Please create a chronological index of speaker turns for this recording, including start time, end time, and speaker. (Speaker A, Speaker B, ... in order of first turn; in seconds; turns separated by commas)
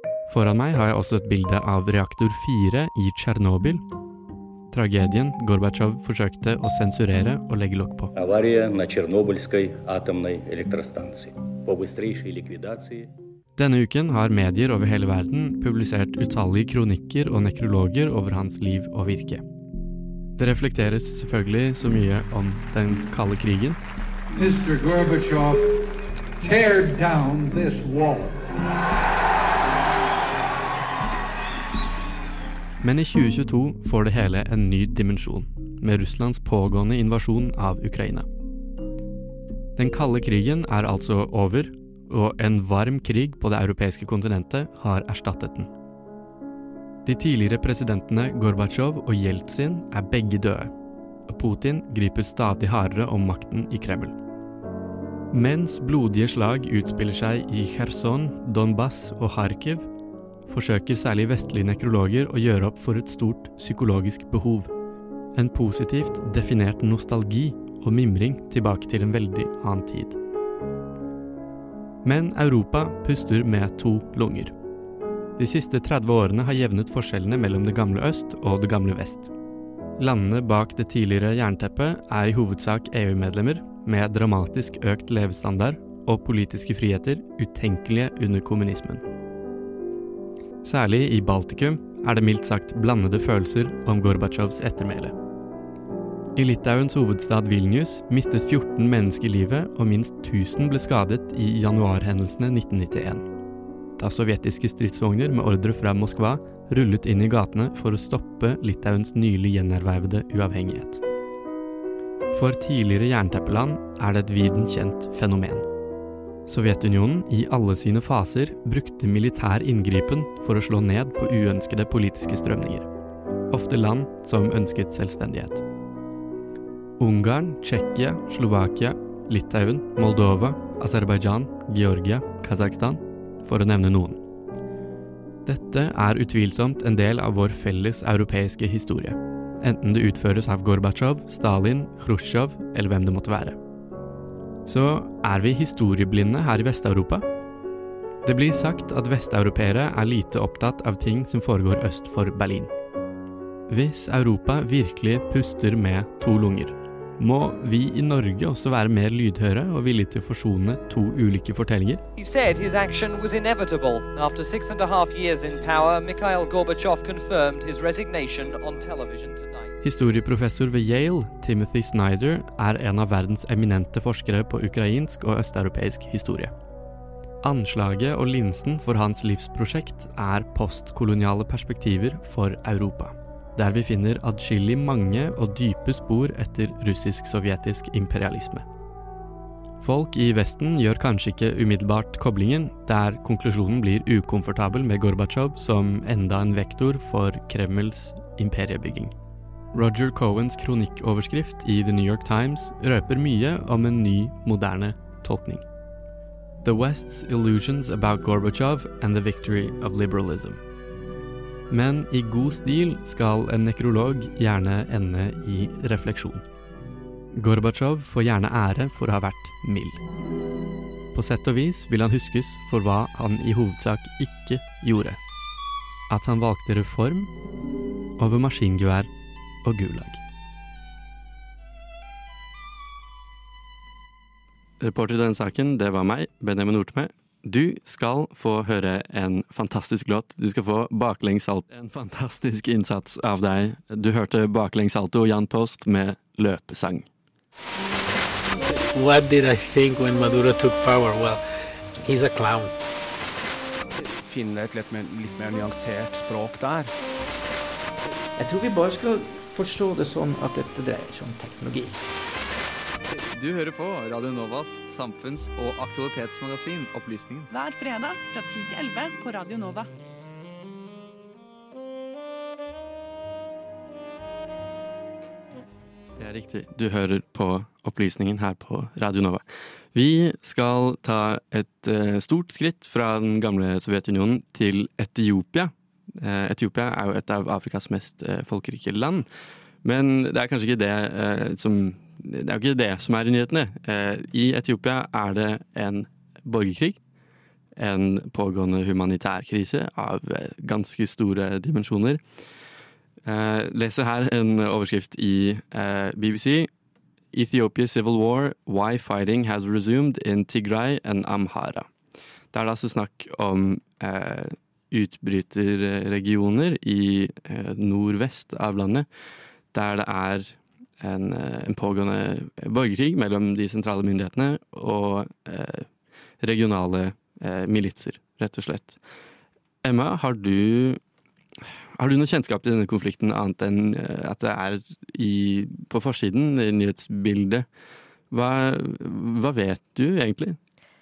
Speaker A: 0.3-3.8, Speaker A: 4.7-8.1, Speaker B: 8.1-13.1, Speaker A: 13.6-19.4, Speaker A: 20.4-23.8, Speaker C: 24.3-25.8, Speaker C: 26.4-28.5, Speaker A: 32.8-38.3, Speaker A: 39.8-45.7, Speaker A: 47.1-50.7, Speaker A: 51.3-54.1, Speaker A: 55.3-59.9, Speaker A: 60.5-64.7, Speaker A: 65.3-70.2, Speaker A: 72.0-74.5, Speaker A: 75.4-79.3, Speaker A: 80.0-89.0, Speaker A: 90.6-95.1, Speaker A: 96.3-103.3, Speaker A: 104.0-111.0, Speaker A: 112.3-115.7, Speaker A: 116.5-122.9, Speaker A: 123.5-125.6, Speaker A: 127.0-134.2, Speaker A: 135.4-143.6, Speaker A: 144.7-147.2, Speaker A: 148.2-152.7, Speaker A: 153.7-162.0, Speaker D: 162.2-169.7, Speaker A: 169.8-176.5, Speaker A: 177.4-188.6, Speaker A: 189.8-199.1, Speaker A: 199.7-205.6, Speaker A: 206.6-210.6, Speaker A: 211.7-216.4, Speaker A: 217.4-220.0, Speaker A: 221.1-225.2, Speaker A: 226.1-227.3, Speaker A: 228.2-229.1, Speaker A: 229.6-230.2, Speaker A: 234.8-247.1, Speaker E: 248.9-251.4, Speaker E: 252.0-252.8, Speaker F: 254.2-256.9, Speaker G: 258.4-262.0, Speaker H: 263.3-267.5, Speaker I: 267.5-269.9, Speaker A: 276.2-279.4, Speaker A: 279.9-289.2, Speaker A: 289.8-297.0, Speaker A: 297.8-302.2, Speaker A: 303.2-306.7, Speaker A: 307.3-311.9, Speaker A: 312.5-319.1, Speaker A: 319.7-325.9, Speaker A: 326.4-329.0, Speaker A: 329.8-331.0, Speaker A: 332.0-337.6, Speaker A: 338.3-340.6